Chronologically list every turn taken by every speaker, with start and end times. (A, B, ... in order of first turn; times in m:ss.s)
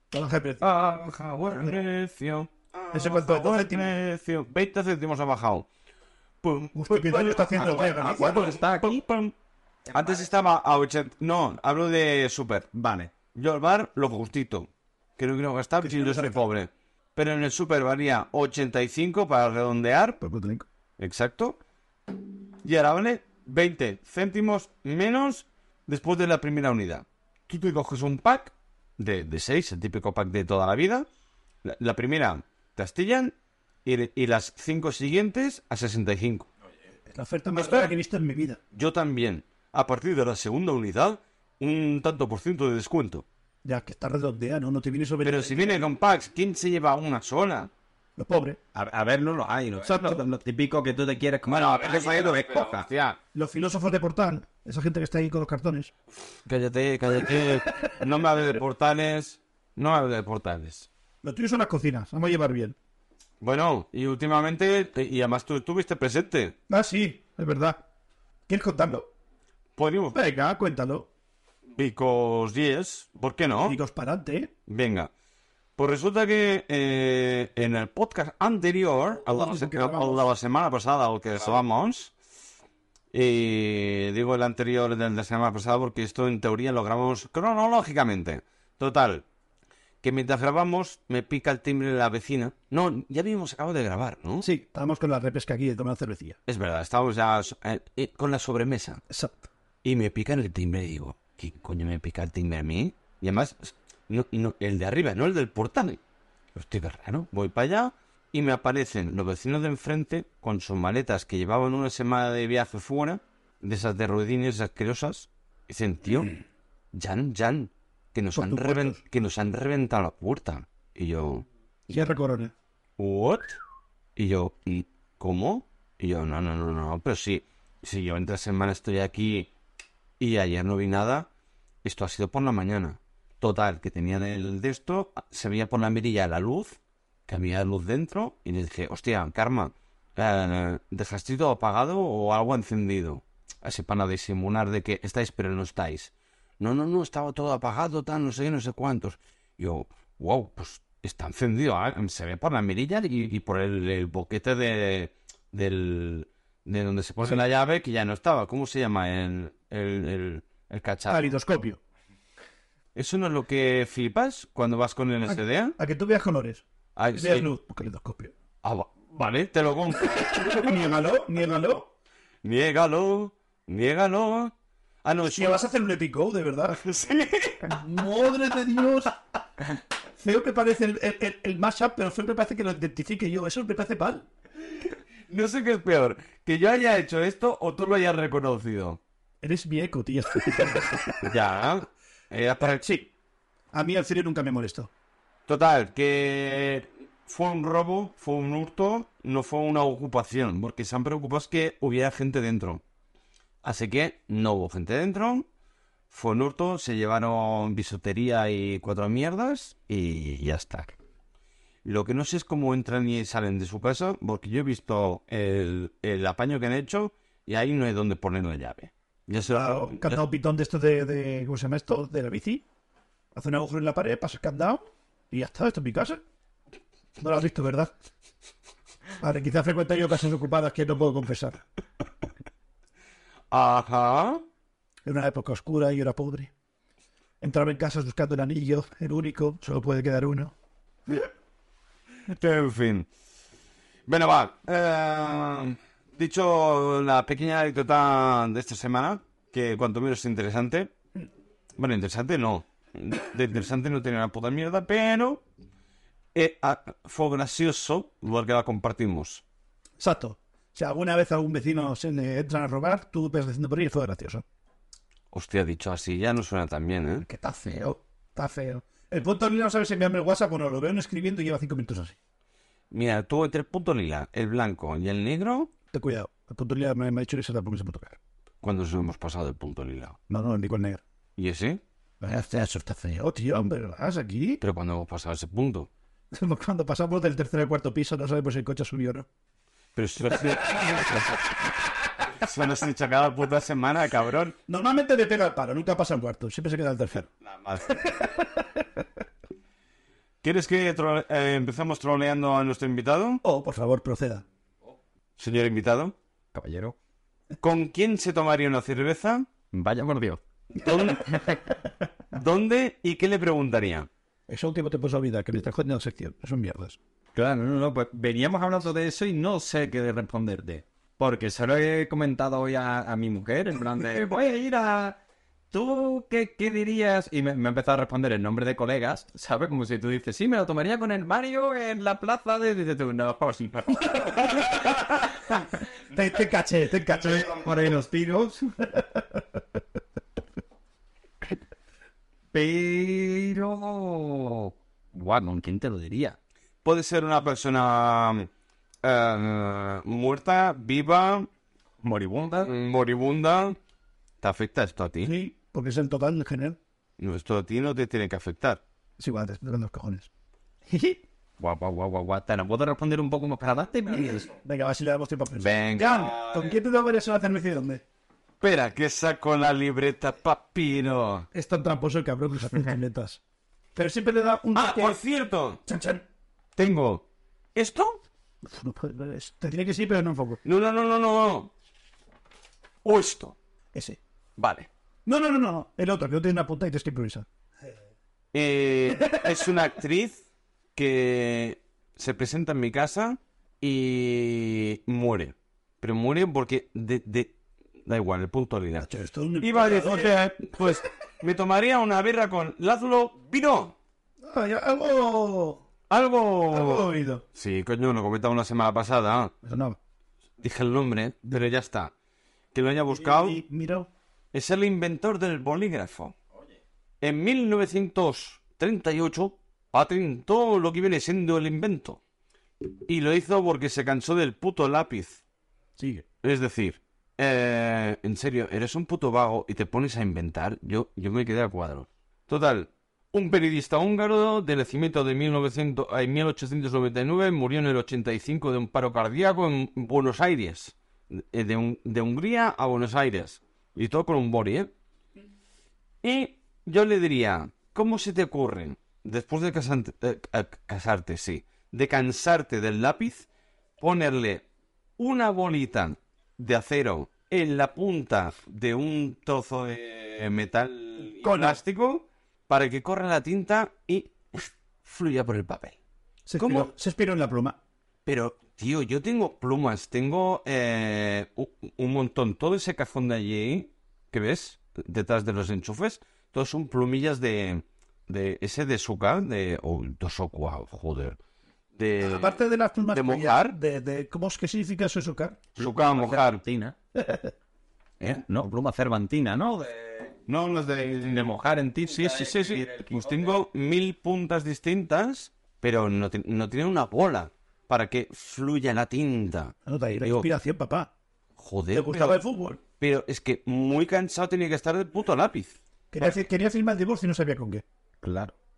0:00.1-0:00.6 A
0:00.6-0:05.6 B
0:02.9-0:03.9 A
0:06.4-0:09.3 B
0:06.7-0:08.5 A
0:07.5-0:09.0 C
0:09.9-0:12.7 B
0:12.7-0:13.1 C
0:13.3-0:20.2 B
0:15.8-0:16.4 A
0:20.2-0:20.6 A
0:21.0-0:21.6 B
0:22.6-0:31.1 B
0:31.6-0:33.3 B
0:33.8-0:36.5 B
0:37.1-0:38.6 A
0:37.6-0:37.9 B
0:38.7-0:43.2 B
0:43.6-0:45.8 A
0:45.2-0:47.7 B
0:48.2-0:48.6 A
0:48.7-0:52.4 C
0:49.8-0:50.2 A
0:51.4-0:53.2 B
0:53.3-0:55.9 A
0:56.4-1:00.9 B
1:01.2-1:02.8 A
1:03.4-1:06.5 B
1:06.7-1:07.8 A
1:08.5-1:09.1 A
1:09.8-1:10.2 B
1:10.1-1:11.1 A
1:11.7-1:13.8 B
1:13.6-1:14.5 A
1:14.7-1:15.1 B
1:15.8-1:22.1 B
1:19.2-1:20.2 A
1:23.1-1:29.2 B
1:30.0-1:34.4 B
1:34.4-1:36.4 A
1:36.5-1:39.0 B
1:39.1-1:39.5 A
1:39.8-1:46.0 B
1:46.5-1:56.3 B
1:56.9-2:02.0 B
1:58.3-1:59.0 A
2:01.9-2:02.5 A
2:03.0-2:03.6 B
2:04.2-2:09.5 B
2:10.2-2:11.3 B
2:11.8-2:16.8 B
2:17.3-2:41.3 B
2:41.1-2:41.8 A
2:42.9-2:45.8 B
2:45.3-2:46.6 A
2:47.0-2:47.5 B
2:47.1-2:48.3 A
2:48.6-2:50.8 B
2:50.3-2:51.9 A
2:52.4-2:54.5 B
2:55.0-2:55.6 B
2:55.3-2:56.8 A
2:56.7-2:57.8 B
2:57.6-2:59.2 A
3:00.2-3:04.2 A
3:05.3-3:09.0 B
3:09.4-3:11.3 A
3:11.2-3:12.9 B
3:12.8-3:13.1 A
3:13.7-3:14.9 A
3:15.5-3:22.8 B
3:23.6-3:25.4 B
3:26.1-3:30.7 B
3:30.0-3:30.9 C
3:31.8-3:40.2 B
3:39.5-3:42.6 A
3:43.3-3:46.2 A
3:47.2-3:47.9 A
3:49.2-3:51.6 A
3:53.5-3:54.4 B
3:55.0-3:56.5 A
3:57.4-4:00.5 A
4:02.3-4:03.1 B
4:04.1-4:10.9 B
4:11.8-4:15.4 B
4:16.3-4:19.4 B
4:20.0-4:24.4 A
4:25.3-4:27.2 B
4:27.2-4:32.2 A
4:32.9-4:35.7 B
4:35.9-4:38.2 A
4:38.6-4:40.2 B
4:40.3-4:41.0 A
4:41.4-4:41.8 B
4:42.2-4:44.6 A
4:44.6-4:45.9 B
4:46.3-4:49.2 A
4:50.0-4:51.6 B
4:52.3-4:54.6 B
4:54.7-4:57.3 A
4:57.4-4:58.1 B
4:57.9-4:58.6 A
5:00.4-5:03.4 B
5:03.4-5:04.4 A
5:05.4-5:06.1 B
5:06.5-5:07.0 C
5:07.6-5:09.5 B
5:09.7-5:10.4 C
5:10.7-5:11.6 B
5:12.3-5:14.1 B
5:14.5-5:17.0 A
5:17.3-5:25.2 C
5:25.7-5:34.6 C
5:36.1-5:37.6 A
5:37.2-5:38.8 C
5:38.9-5:39.4 A
5:42.5-5:46.4 C
5:46.8-5:48.5 B
5:49.0-5:51.5 B
5:52.0-5:52.7 C
5:52.6-5:53.8 B
5:54.4-5:55.3 B
5:55.2-5:56.8 A
5:57.2-5:58.8 B
5:59.2-6:00.3 A
6:00.9-6:01.2 A
6:01.6-6:04.5 C
6:04.6-6:08.0 A
6:05.6-6:06.7 B
6:08.6-6:11.5 B
6:11.5-6:13.4 A
6:13.9-6:15.2 A
6:14.7-6:15.8 B
6:15.8-6:16.2 A
6:16.8-6:17.2 B
6:17.7-6:18.2 B
6:18.6-6:20.6 A
6:20.6-6:21.7 B
6:23.0-6:23.5 B
6:23.9-6:24.2 A
6:24.6-6:24.9 B
6:25.2-6:27.4 A
6:28.5-6:30.4 B
6:31.0-6:37.5 B
6:38.0-6:39.1 B
6:39.1-6:40.3 A
6:39.6-6:43.9 B
6:44.4-6:45.8 A
6:46.1-6:49.5 B
6:46.7-6:47.4 A
6:49.6-6:50.0 A
6:50.6-6:52.1 B
6:52.7-6:53.6 B
6:53.1-6:54.1 A
6:54.5-6:56.3 B
6:57.2-7:02.2 B
7:03.1-7:05.4 B
7:06.0-7:06.2 A
7:06.4-7:24.9 B
7:26.2-7:33.5 B
7:34.0-7:34.6 B
7:35.2-7:46.0 B
7:41.4-7:41.8 A
7:46.5-7:47.8 A
7:46.6-7:46.9 B
7:48.2-8:01.4 B
8:02.0-8:02.6 B
8:02.2-8:05.6 A
8:03.1-8:03.8 B
8:05.8-8:06.6 B
8:05.8-8:06.9 C
8:07.2-8:07.5 A
8:08.2-8:10.3 C
8:10.5-8:11.5 B
8:11.2-8:13.5 C
8:12.1-8:20.5 B
8:19.8-8:21.1 A
8:21.6-8:22.4 B
8:21.9-8:22.8 A
8:23.0-8:25.8 B
8:26.1-8:27.8 A
8:28.2-8:28.5 C